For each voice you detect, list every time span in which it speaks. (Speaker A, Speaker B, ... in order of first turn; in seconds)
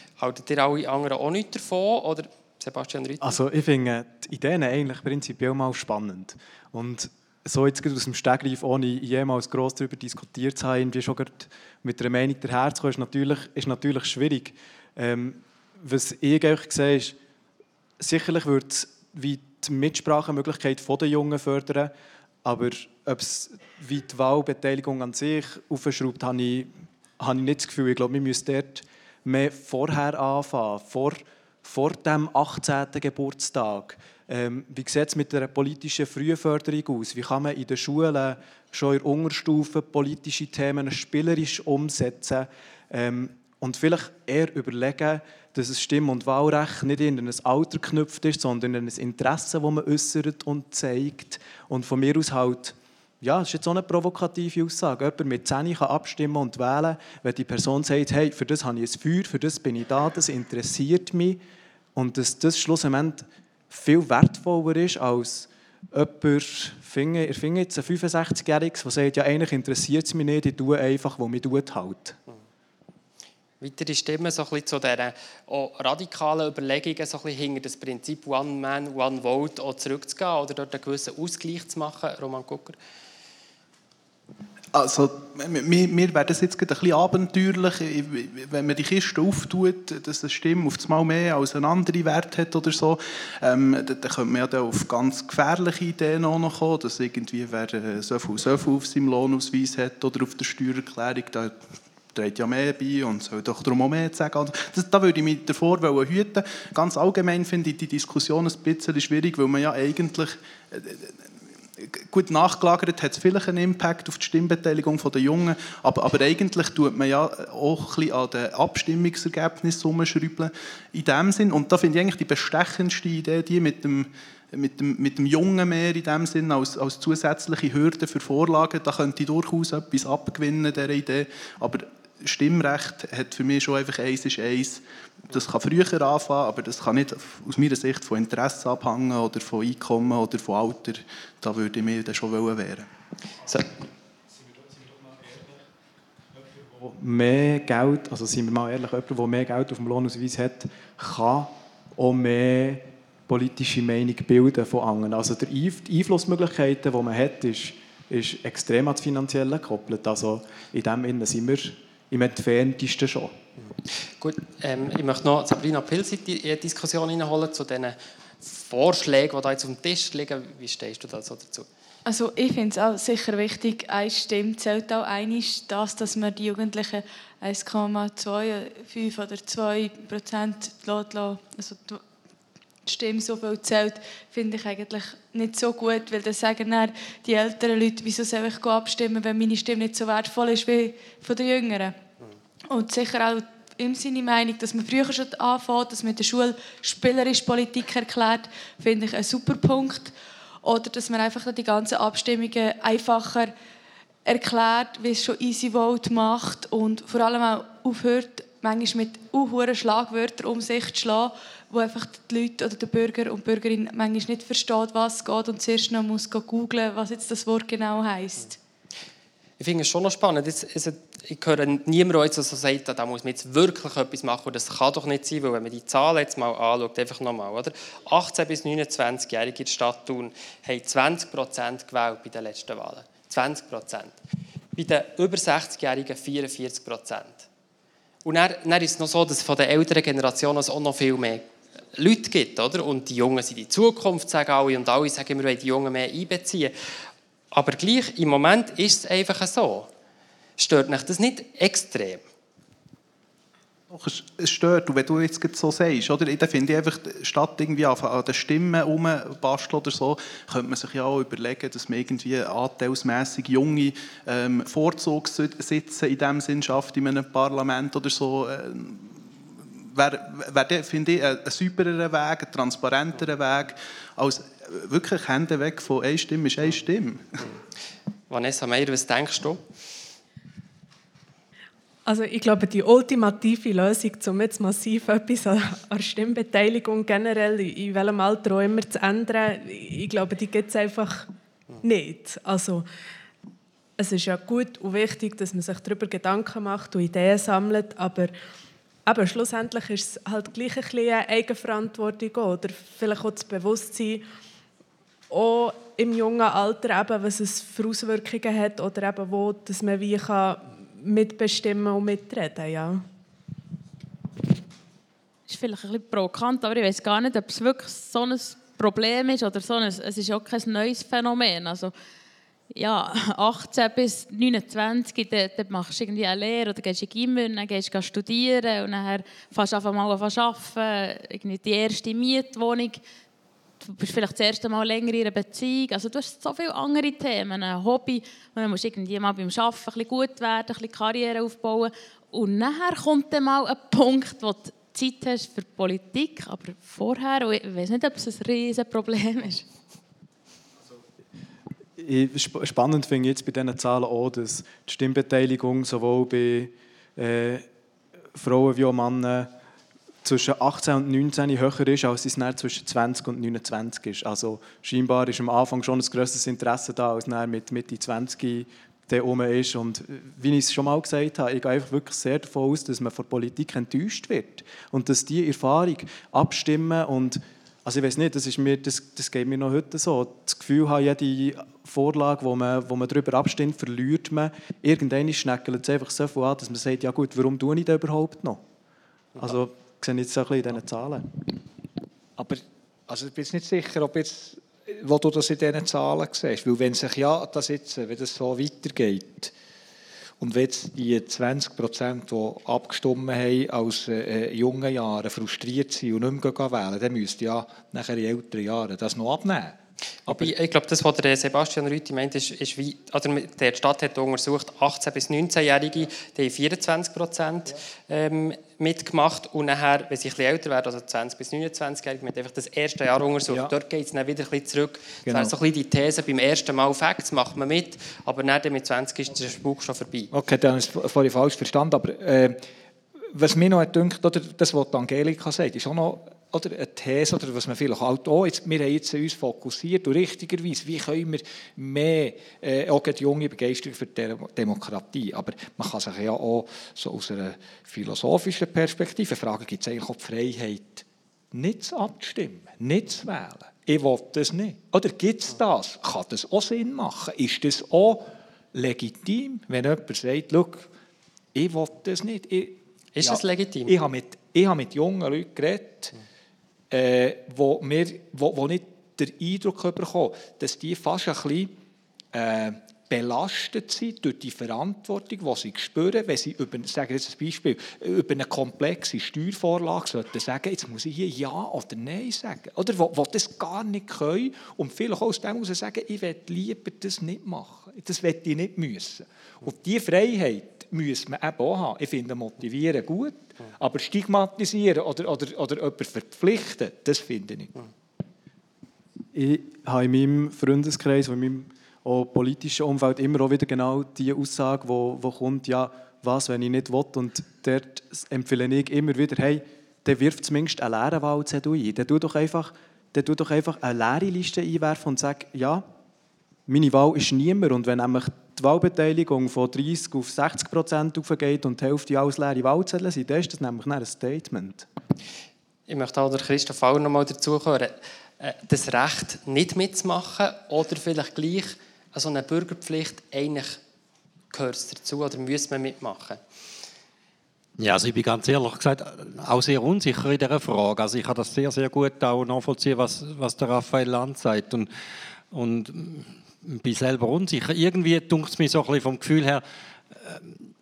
Speaker A: 0.2-3.4, 73.6-82.8, 164.2-171.7, 219.6-234.1, 234.7-237.5, 238.2-246.7, 247.5-249.9, 250.6-252.2, 278.3-279.6, 410.3-430.3, 463.1-463.9, 525.9-533.8, 534.5-536.4
Speaker B: 3.2-17.1, 18.0-21.9, 22.4-61.4, 61.9-72.2, 146.7-163.3, 352.0-357.6, 358.3-359.5, 360.2-388.6, 389.4-391.5, 499.3-515.9, 516.7-524.9
Speaker C: 84.7-101.6, 102.1-111.1, 111.8-142.9, 253.9-277.4
Speaker D: 172.1-182.0, 182.8-192.0, 192.7-203.5, 204.2-218.6
Speaker E: 282.1-291.3, 291.8-292.8, 294.0-298.3, 299.1-304.2, 305.3-313.0
Speaker F: 315.5-321.9, 322.7-333.0, 333.8-349.6
Speaker G: 392.4-399.5, 400.4-410.5, 423.5-423.7, 425.2-425.6, 430.3-432.6, 433.3-460.9, 461.5-466.1, 466.9-471.7, 472.3-497.7
Speaker H: 537.8-544.9, 545.5-550.6